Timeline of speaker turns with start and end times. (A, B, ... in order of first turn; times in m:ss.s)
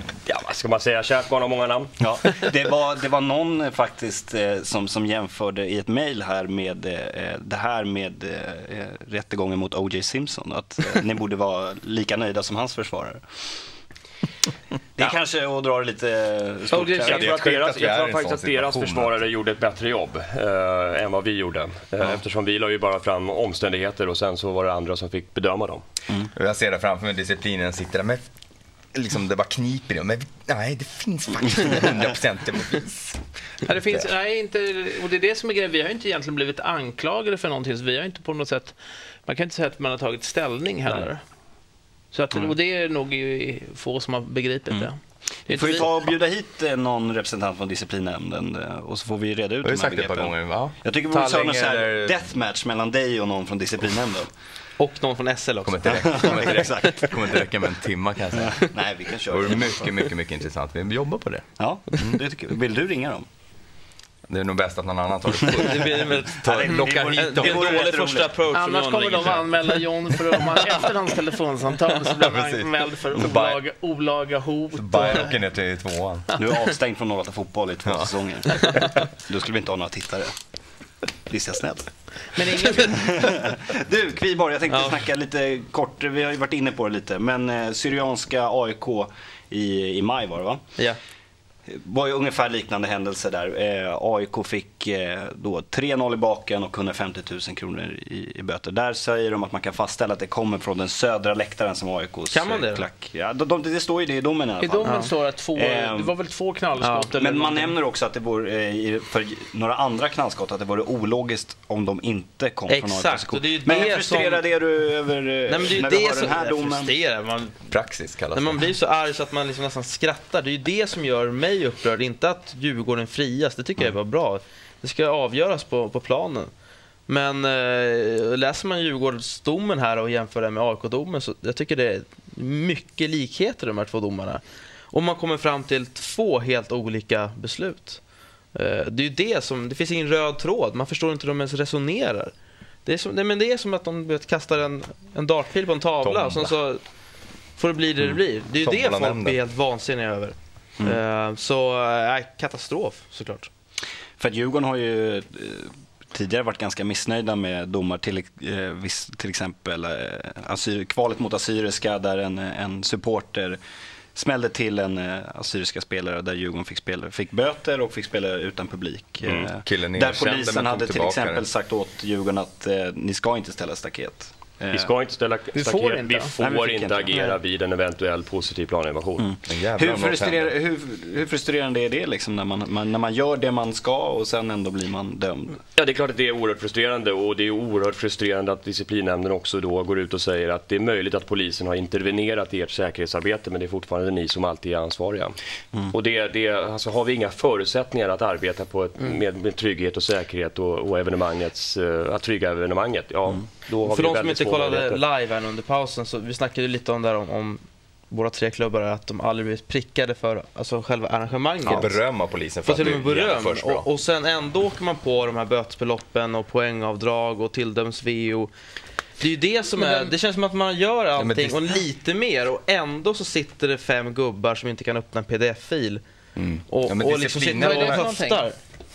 0:00.3-0:02.1 A
0:02.0-0:13.2 B
0:15.0-0:17.3 B
0:16.7-0:25.8 A
0:17.0-0:19.2 C
0:26.3-0:28.3 C
0:28.9-0:34.1 C
0:33.6-0:41.2 D
0:42.1-0:45.9 D
0:45.5-0:54.3 B
0:49.6-0:52.2 C
0:54.8-0:56.6 E
0:55.6-0:58.7 C
0:55.9-0:57.0 B
0:58.4-0:59.9 B
0:59.3-1:01.4 C
1:01.6-1:03.3 B
1:04.3-1:07.9 C
1:05.5-1:09.8 E
1:06.4-1:08.4 B
1:08.5-1:15.4 D
1:12.2-1:13.6 C
1:14.8-1:16.3 C
1:16.4-1:20.3 B
1:18.6-1:18.9 C
1:21.3-1:21.9 B
1:22.3-1:23.0 D
1:22.5-1:30.6 B
1:24.7-1:25.0 E
1:31.7-1:46.2 B
1:42.3-1:42.9 E
1:44.6-1:47.8 D
1:44.8-1:45.1 E
1:46.8-1:47.1 E
1:47.1-1:56.9 B
1:52.7-1:54.5 E
1:55.5-1:57.6 E
1:57.7-1:58.6 C
1:58.3-2:06.5 E
2:07.1-2:18.0 E
2:18.5-2:22.3 E
2:22.8-2:26.8 E
2:26.0-2:26.5 C
2:27.6-2:33.5 E
2:28.6-2:29.4 C
2:34.2-2:43.6 B
2:44.2-2:54.9 B
2:49.2-2:49.5 A
2:49.5-2:51.5 C
2:54.7-2:59.3 A
2:55.5-2:56.4 D
2:56.4-2:57.2 B
2:59.2-3:05.6 B
2:59.5-3:00.5 C
3:05.8-3:25.0 A
3:23.8-3:32.1 E
3:31.6-3:33.9 C
3:32.6-3:38.5 E
3:39.2-3:46.0 E
3:39.7-3:40.1 D
3:41.2-3:41.8 C
3:46.4-3:48.0 C
3:46.7-3:48.6 E
3:47.6-3:48.5 D